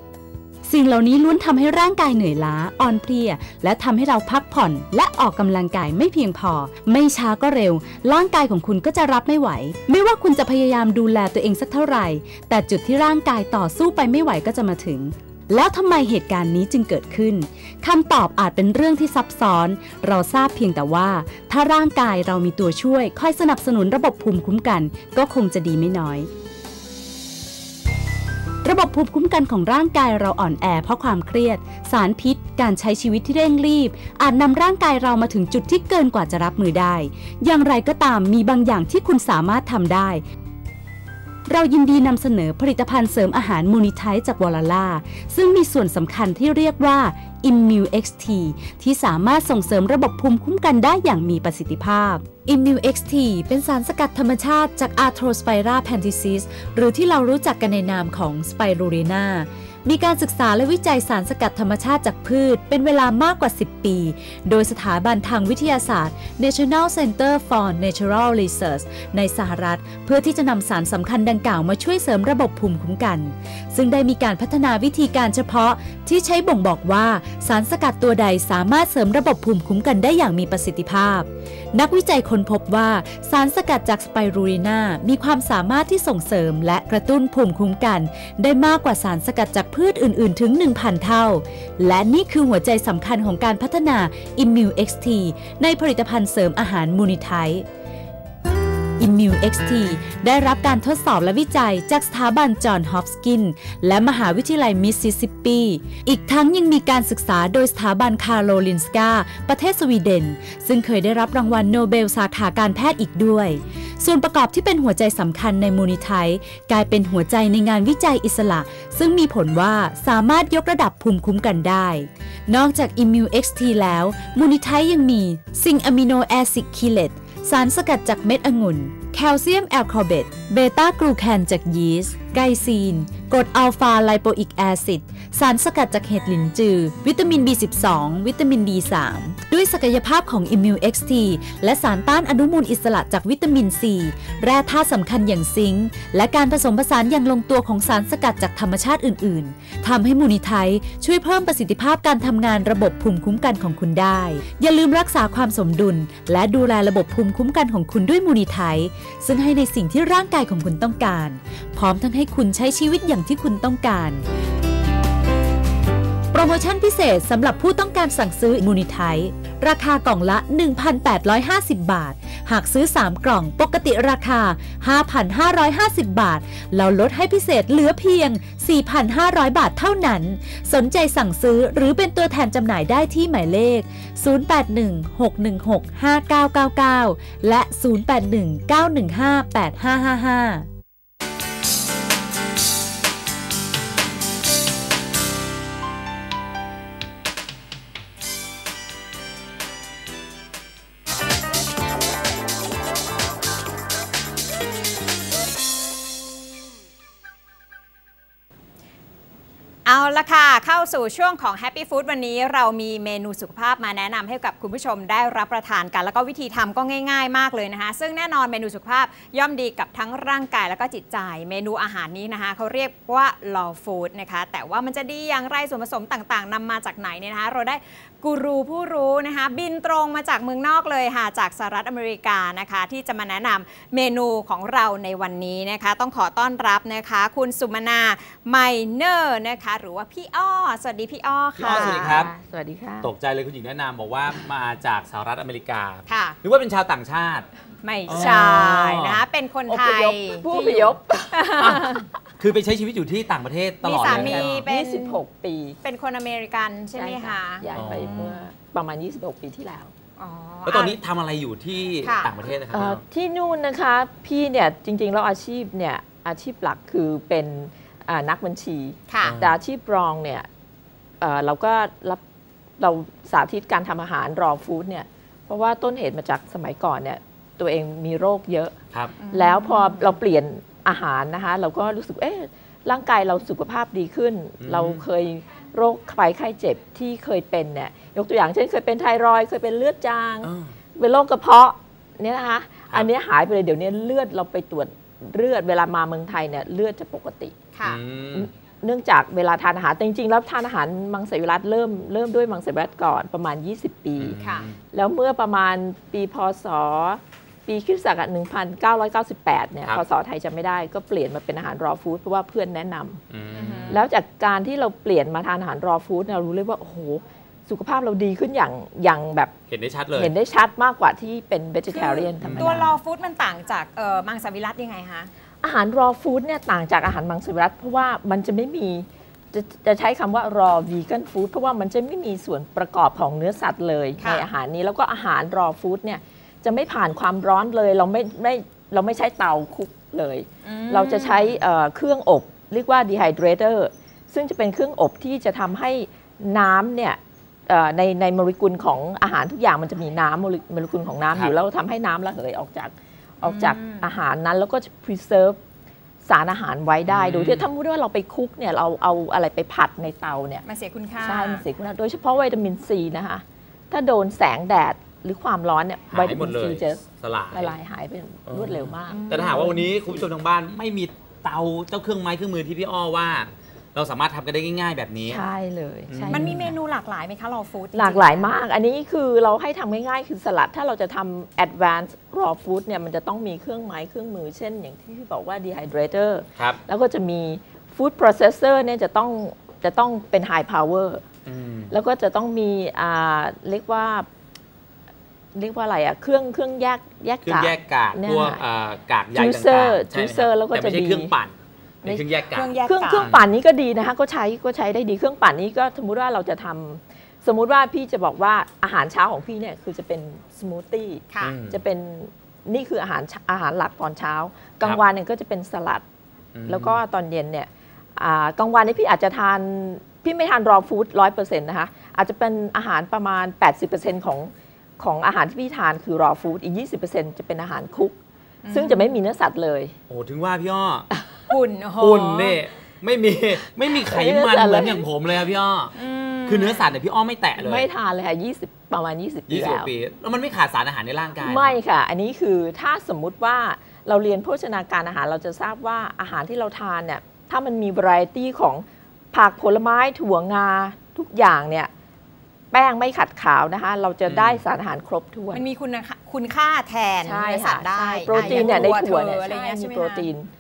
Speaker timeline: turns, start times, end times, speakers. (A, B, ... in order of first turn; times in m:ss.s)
0:00.6-0:26.3 A
0:28.6-0:40.2 A
0:41.5-1:37.6 A
1:39.0-2:44.2 A
2:46.3-3:10.7 A
3:29.8-4:02.3 B
4:01.6-4:02.3 C
4:01.6-4:03.1 D
4:03.0-4:07.5 C
4:06.1-4:06.4 B
4:07.8-4:10.9 B
4:08.1-4:09.2 C
4:09.7-4:12.1 D
4:11.6-4:14.7 C
4:13.8-4:15.2 B
4:14.0-4:15.8 D
4:15.8-4:18.4 B
4:16.9-4:19.9 D
4:17.7-4:18.3 C
4:20.2-4:21.0 B
4:20.6-4:23.0 C
4:22.0-4:22.3 B
4:22.7-4:30.5 D
4:29.1-4:29.4 B
4:29.2-4:29.6 C
4:31.2-4:32.2 D
4:32.8-4:38.7 D
4:39.2-4:40.1 B
4:39.3-4:57.5 D
4:44.6-4:45.0 C
4:50.4-4:50.7 C
4:57.7-4:58.0 B
4:57.8-4:58.5 C
4:58.3-5:04.4 D
5:04.2-5:04.8 C
5:04.4-5:04.7 B
5:04.9-5:13.2 D
5:13.3-5:14.0 C
5:13.5-5:14.0 B
5:13.9-5:19.5 D
5:19.7-5:20.3 C
5:20.2-5:23.0 D
5:21.9-5:25.3 B
5:22.4-5:22.9 C
5:25.6-5:55.6 D
5:34.2-5:34.4 B
5:40.6-5:41.6 B
5:53.4-5:54.1 B
5:56.2-6:00.6 D
5:57.1-5:57.7 C
6:00.6-6:01.6 B
6:01.2-6:10.2 D
6:06.1-6:07.7 C
6:08.5-6:15.4 C
6:09.1-6:09.9 B
6:15.3-6:16.7 D
6:16.1-6:16.6 C
6:16.3-6:18.5 B
6:17.9-6:31.2 D
6:31.4-6:31.9 C
6:31.9-6:34.3 D
6:35.5-6:38.6 D
6:37.4-6:43.4 C
6:39.3-6:41.3 D
6:42.5-6:43.3 B
6:42.8-6:56.0 D
6:51.3-6:51.5 B
6:51.4-6:51.8 C
6:56.5-6:57.0 C
6:56.7-7:08.2 D
7:08.6-7:09.2 B
7:08.7-7:09.9 D
7:10.1-7:11.1 C
7:11.5-7:12.6 B
7:12.0-7:15.9 C
7:14.0-7:15.0 D
7:15.9-7:16.9 B
7:16.4-7:17.8 C
7:17.6-7:19.9 D
7:19.5-7:21.8 C
7:21.4-7:31.9 D
7:32.7-7:35.6 D
7:34.3-7:34.6 C
7:35.5-7:40.3 B
7:37.2-7:40.5 D
7:38.4-7:38.9 C